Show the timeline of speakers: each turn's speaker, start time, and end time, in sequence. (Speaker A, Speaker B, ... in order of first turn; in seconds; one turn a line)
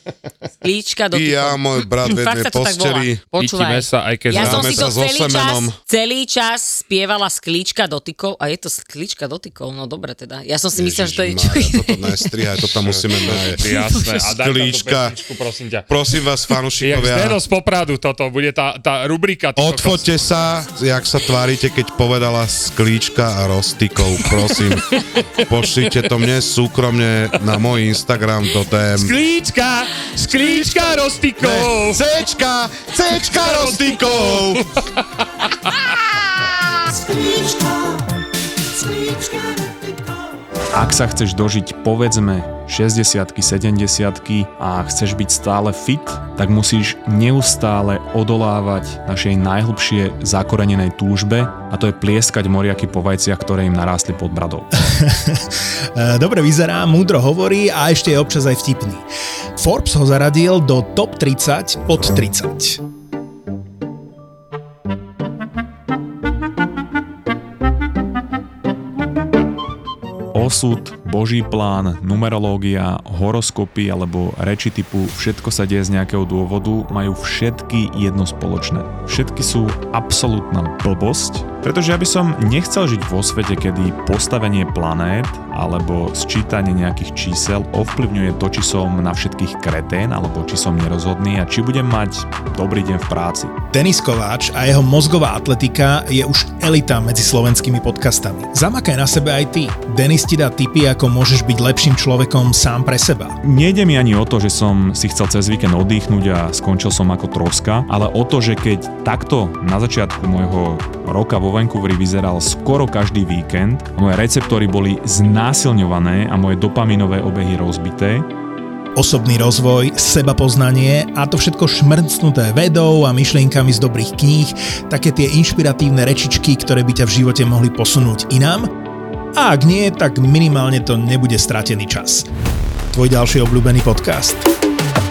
Speaker A: 0.6-12.7
Speaker B: 1.1-3.2
Speaker C: 3.4-4.9
Speaker B: 4.3-5.8
Speaker B: 10.7-13.6
Speaker C: 12.8-15.9
Speaker A: 13.3-14.3
Speaker B: 14.3-15.2
Speaker B: 15.9-17.4
Speaker C: 16.8-20.1
Speaker B: 19.6-29.1
Speaker C: 24.6-25.3
Speaker C: 28.9-32.0
Speaker B: 30.4-30.8
Speaker B: 31.4-34.6
Speaker C: 33.0-34.8
Speaker D: 40.7-54.7
Speaker E: 54.9-55.4
Speaker E: 56.0-59.0
Speaker E: 59.6-62.8
Speaker D: 70.3-93.5
Speaker E: 93.7-103.4
Speaker D: 103.4-118.3
Speaker E: 119.0-128.7
Speaker E: 129.4-132.3
Speaker E: 132.9-134.5